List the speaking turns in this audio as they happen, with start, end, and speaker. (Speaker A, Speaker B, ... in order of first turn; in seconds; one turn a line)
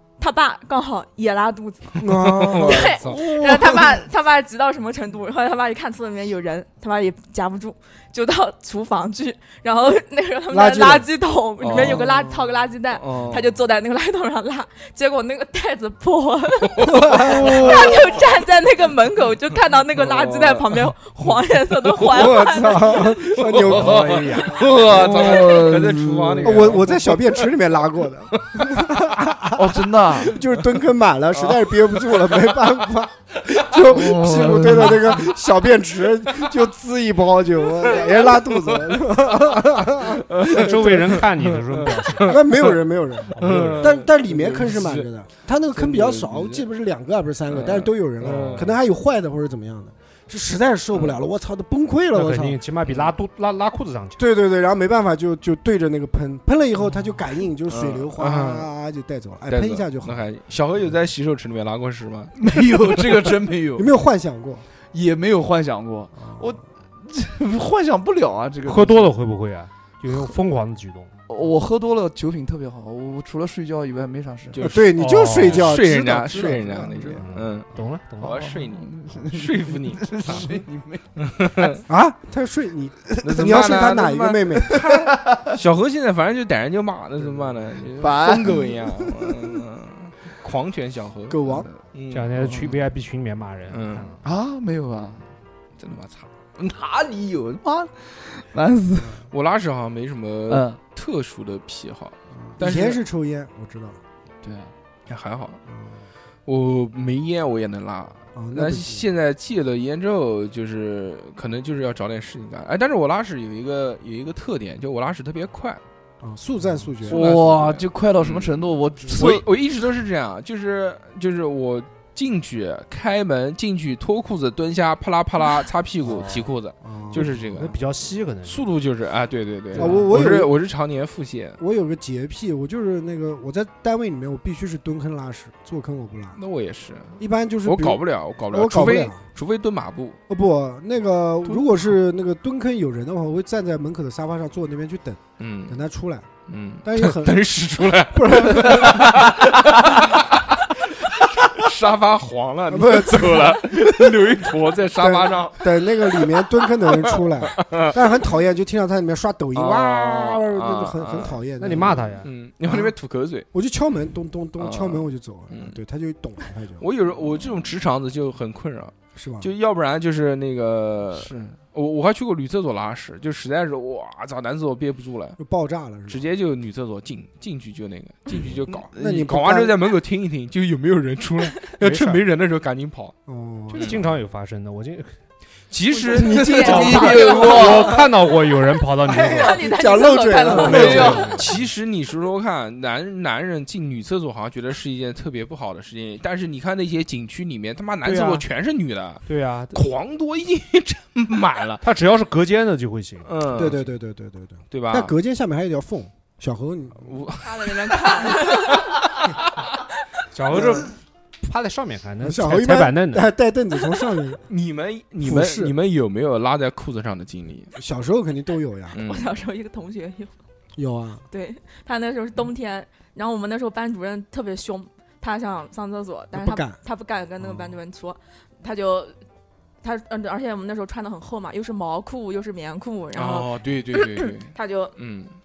Speaker A: 0.2-23.1
Speaker B: 2.0-3.5
Speaker C: 2.0-3.7
Speaker C: 10.5-11.1
Speaker B: 11.6-12.1
Speaker C: 11.7-12.0
Speaker B: 12.9-13.6
Speaker B: 16.7-18.2
Speaker C: 17.0-17.6
Speaker B: 19.9-20.7
Speaker C: 22.1-24.4
Speaker B: 22.7-27.5
Speaker D: 23.6-24.7
Speaker E: 24.4-26.8
Speaker C: 24.9-25.2
Speaker C: 26.4-29.7
Speaker B: 28.3-29.2
Speaker E: 29.5-30.4
Speaker C: 30.2-41.2
Speaker B: 31.3-32.7
Speaker B: 33.5-35.2
Speaker E: 33.9-35.0
Speaker B: 37.8-39.2
Speaker B: 40.3-42.7
Speaker D: 40.5-42.4
Speaker C: 42.2-52.6
Speaker D: 43.3-44.0
Speaker B: 43.3-45.1
Speaker B: 45.7-46.6
Speaker B: 47.5-48.7
Speaker D: 48.2-48.8
Speaker B: 50.9-51.2
Speaker D: 52.1-54.2
Speaker C: 54.2-60.2
Speaker B: 57.7-58.7
Speaker B: 59.5-62.3
Speaker E: 62.3-63.9
Speaker C: 63.8-64.6
Speaker E: 64.9-69.1
Speaker C: 66.2-66.5
Speaker D: 68.7-71.1
Speaker E: 71.3-74.7
Speaker B: 74.5-77.7
Speaker C: 74.6-77.2
Speaker D: 75.0-75.7
Speaker D: 77.2-78.4
Speaker B: 78.2-80.5
Speaker E: 78.2-81.0
Speaker B: 81.2-81.8
Speaker C: 81.8-84.8
Speaker E: 83.1-83.6
Speaker B: 83.2-92.7
Speaker E: 84.7-85.6
Speaker E: 88.0-89.3
Speaker C: 91.3-91.7
Speaker E: 91.5-91.8
Speaker D: 92.1-94.2
Speaker E: 92.4-92.7
Speaker B: 93.7-94.1
Speaker E: 94.2-95.3
Speaker B: 95.8-96.3
Speaker E: 96.6-99.2
Speaker B: 99.3-103.0
Speaker E: 100.5-100.8
Speaker C: 102.4-104.0
Speaker E: 104.4-104.7
Speaker B: 105.1-105.6
Speaker C: 105.7-106.0
Speaker B: 106.5-115.8
Speaker C: 108.3-109.0
Speaker C: 116.2-117.2
Speaker B: 117.0-118.6
Speaker E: 117.1-119.5
Speaker B: 119.1-127.8
Speaker D: 126.0-126.5
Speaker C: 126.8-127.3
Speaker D: 127.1-128.7
Speaker B: 128.4-131.6
Speaker D: 129.7-130.2
Speaker C: 129.7-130.5
Speaker C: 131.6-136.4
Speaker B: 136.3-140.2
Speaker C: 137.2-139.2
Speaker C: 140.3-146.3
Speaker B: 145.4-145.8
Speaker B: 146.5-150.6
Speaker C: 146.8-149.2
Speaker E: 149.2-150.0
Speaker B: 151.4-158.0
Speaker C: 152.7-153.7
Speaker C: 154.9-162.9
Speaker B: 159.5-163.5
Speaker D: 161.6-162.3
Speaker C: 163.5-166.9
Speaker B: 164.6-165.8
Speaker B: 166.8-175.4
Speaker C: 169.2-169.5
Speaker E: 171.1-171.6
Speaker C: 175.4-176.2
Speaker B: 176.1-183.1
Speaker C: 178.9-179.7
Speaker D: 181.8-182.2
Speaker C: 183.3-184.0
Speaker D: 183.7-185.1
Speaker B: 183.7-184.0
Speaker B: 185.7-187.5
Speaker A: 186.0-188.0
Speaker C: 186.1-187.7
Speaker E: 186.2-187.9
Speaker D: 186.6-189.7
Speaker A: 189.1-191.4
Speaker C: 189.1-191.4
Speaker E: 190.4-191.3
Speaker D: 190.5-191.6
Speaker B: 190.6-201.8
Speaker D: 198.0-198.4
Speaker D: 199.3-199.9
Speaker D: 201.8-203.4
Speaker B: 203.2-203.9
Speaker C: 203.5-207.3
Speaker B: 204.7-205.1
Speaker B: 207.0-209.6
Speaker A: 207.4-209.0
Speaker D: 210.3-210.9
Speaker C: 210.5-210.9
Speaker D: 211.4-213.3
Speaker C: 212.2-214.4
Speaker B: 214.5-217.7
Speaker C: 215.2-215.7
Speaker C: 217.8-219.0
Speaker B: 218.9-219.3
Speaker A: 219.0-220.3
Speaker C: 220.8-221.3
Speaker A: 221.3-229.1
Speaker C: 226.3-226.8
Speaker C: 227.4-227.8
Speaker A: 229.8-234.9
Speaker B: 233.1-235.3